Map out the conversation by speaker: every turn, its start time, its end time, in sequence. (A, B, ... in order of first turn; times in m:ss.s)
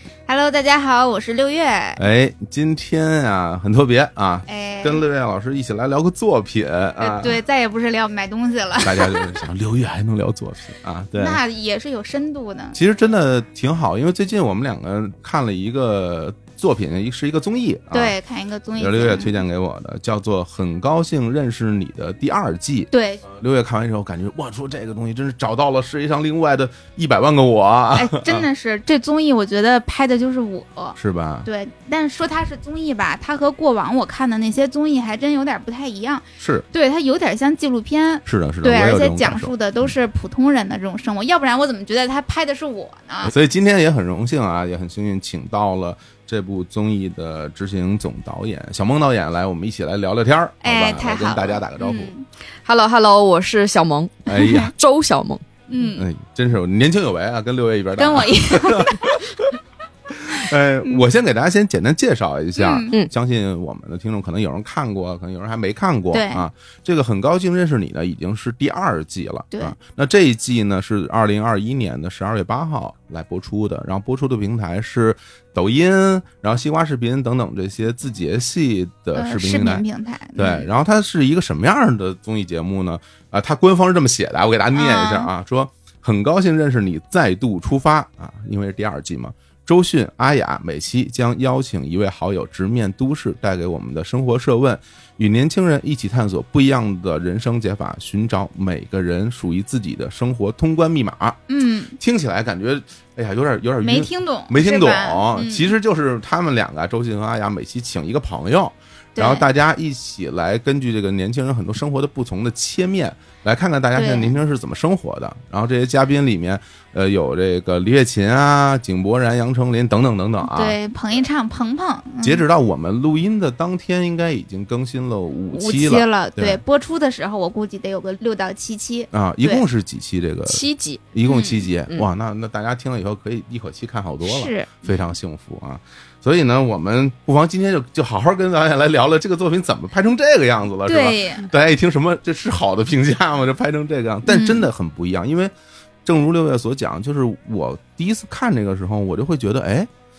0:00.3-0:02.0 A
0:02.0-0:07.4 B
0:04.5-0:05.0 A
0:07.0-0:09.4 A
0:08.8-0:11.4 B
0:11.2-0:12.8 A
0:12.7-0:18.2 B
0:17.9-0:19.4 A
0:18.8-0:28.5 B
0:22.9-0:23.2 A
0:27.9-0:43.3 A
0:31.0-0:31.5 B
0:36.4-0:36.6 B
0:38.2-0:39.9 B
0:43.2-0:52.1 B
0:50.6-0:52.2 A
0:52.6-0:55.4 C
0:54.3-0:54.7 B
0:54.3-0:54.7 A
0:55.7-0:56.0 A
0:55.8-0:59.5 B
0:58.0-0:59.1 A
1:00.1-1:19.8 B
1:02.6-1:02.9 A
1:06.1-1:06.4 A
1:19.1-1:20.7 A
1:20.4-1:41.4 B
1:24.7-1:25.3 A
1:41.5-1:42.0 A
1:42.0-2:00.8 B
1:43.8-1:45.7 A
1:49.2-1:49.4 A
1:53.9-1:54.4 A
2:00.4-2:02.4 A
2:02.2-2:06.6 B
2:05.5-2:09.6 A
2:09.1-2:25.5 B
2:10.4-2:11.0 C
2:11.2-2:11.7 A
2:14.2-2:15.1 A
2:20.8-2:21.5 A
2:24.2-2:24.7 A
2:26.0-2:29.9 B